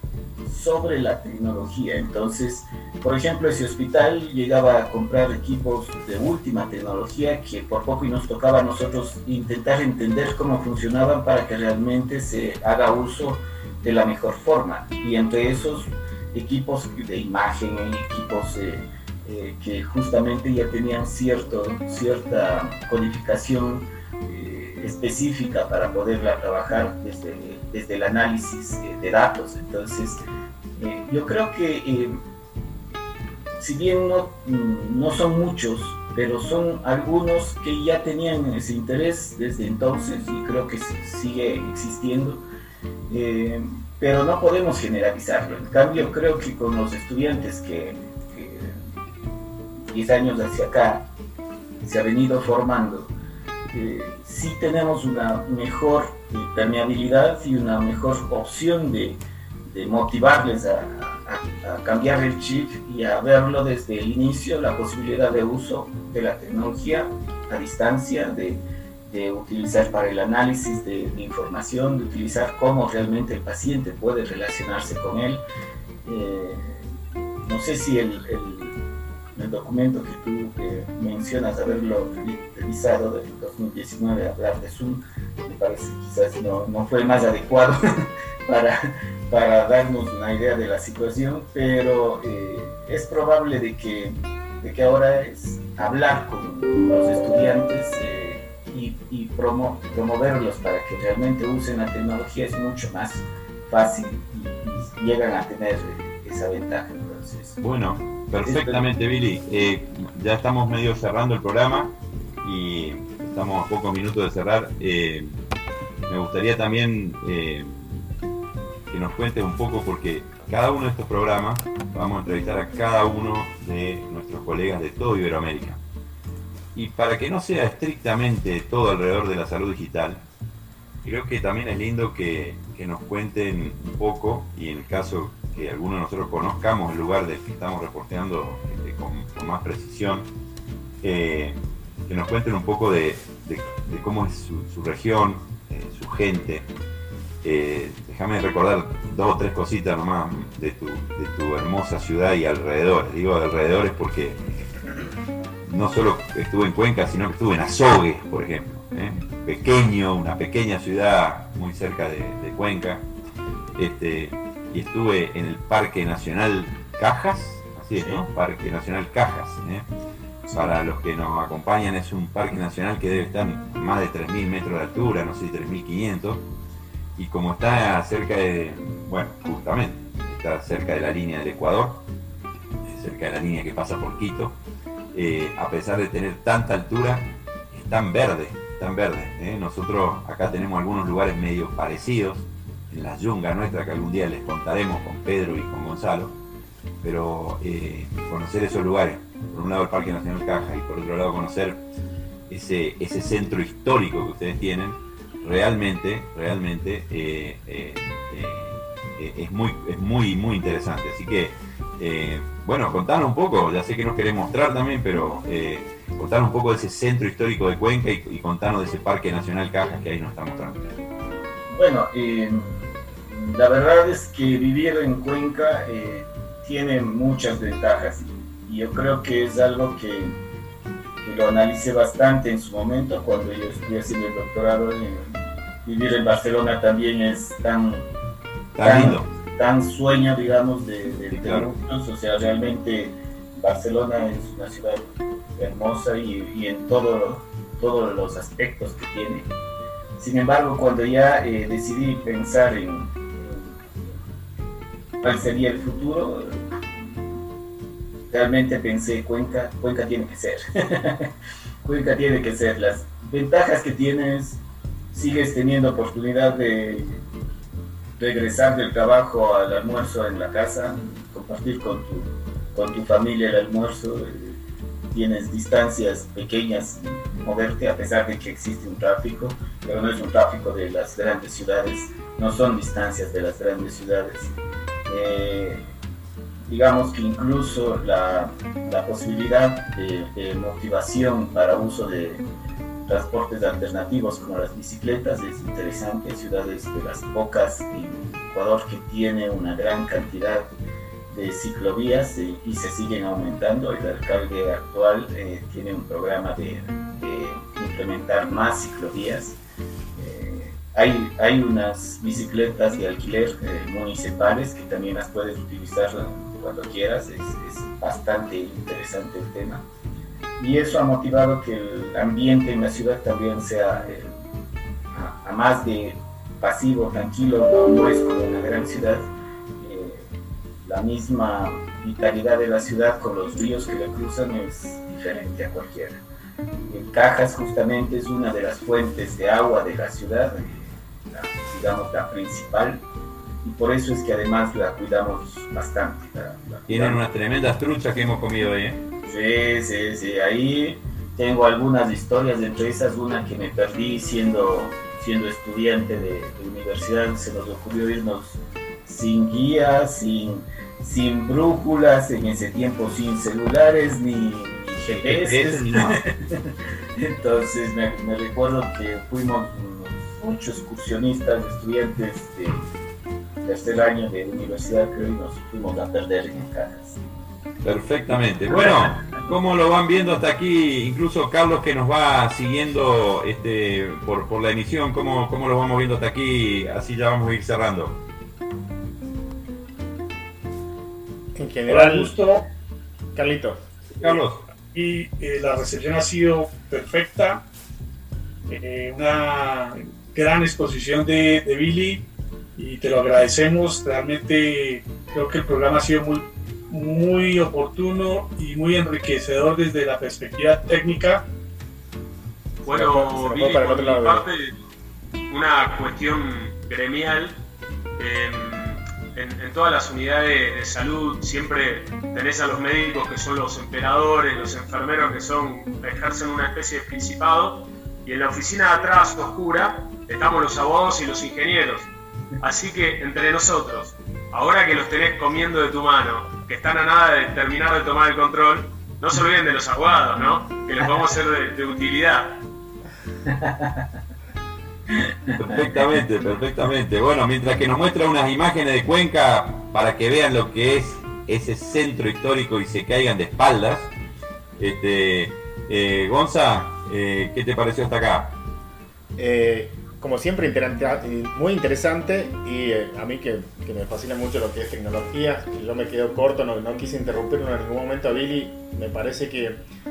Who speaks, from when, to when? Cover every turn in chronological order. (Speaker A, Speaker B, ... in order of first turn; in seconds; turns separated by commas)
Speaker A: 0.4-30.2, Speaker A: 30.8-32.2, Speaker A: 33.6-42.4, Speaker A: 43.1-48.8, Speaker A: 49.9-51.1, Speaker A: 51.8-53.1, Speaker A: 53.7-75.4, Speaker A: 76.0-76.9, Speaker A: 77.4-78.8, Speaker A: 79.4-107.6, Speaker B: 107.6-115.4, Speaker A: 108.4-108.8, Speaker B: 116.1-118.1, Speaker B: 118.9-125.8, Speaker B: 126.8-130.2, Speaker B: 131.0-140.3, Speaker B: 141.0-146.7, Speaker B: 147.4-154.4, Speaker B: 155.7-163.0, Speaker B: 163.8-169.8, Speaker A: 167.9-168.2, Speaker A: 170.5-170.8, Speaker B: 170.5-176.4, Speaker B: 177.2-182.0, Speaker B: 182.8-184.6, Speaker B: 185.1-196.3, Speaker B: 197.0-201.8, Speaker B: 202.5-220.9, Speaker A: 221.7-230.4, Speaker A: 231.2-238.1, Speaker B: 238.8-239.3, Speaker A: 238.8-245.0, Speaker B: 241.3-241.7, Speaker A: 245.6-249.5, Speaker A: 250.2-254.2, Speaker A: 255.2-257.2, Speaker A: 258.3-261.3, Speaker A: 261.8-267.2, Speaker A: 268.2-274.6, Speaker A: 275.1-284.6, Speaker A: 285.1-285.9, Speaker A: 286.7-292.4, Speaker A: 293.1-300.7, Speaker A: 301.3-309.6, Speaker A: 310.1-319.9, Speaker A: 320.6-324.3, Speaker A: 325.1-330.3, Speaker A: 330.8-336.2, Speaker A: 336.9-343.0, Speaker A: 343.6-347.2, Speaker B: 346.9-349.0, Speaker A: 349.3-372.8, Speaker B: 365.1-366.2, Speaker A: 373.6-377.2, Speaker B: 377.8-388.2, Speaker C: 391.6-392.4, Speaker D: 391.9-392.6, Speaker C: 393.4-393.9, Speaker B: 394.2-394.6, Speaker D: 394.2-397.6, Speaker D: 398.7-411.4, Speaker C: 412.8-414.5, Speaker E: 412.9-414.8, Speaker E: 415.5-417.6, Speaker E: 418.2-432.1, Speaker E: 432.6-442.6, Speaker A: 443.5-444.1, Speaker A: 445.1-446.0, Speaker B: 445.6-454.1, Speaker B: 454.8-458.6, Speaker C: 459.4-469.8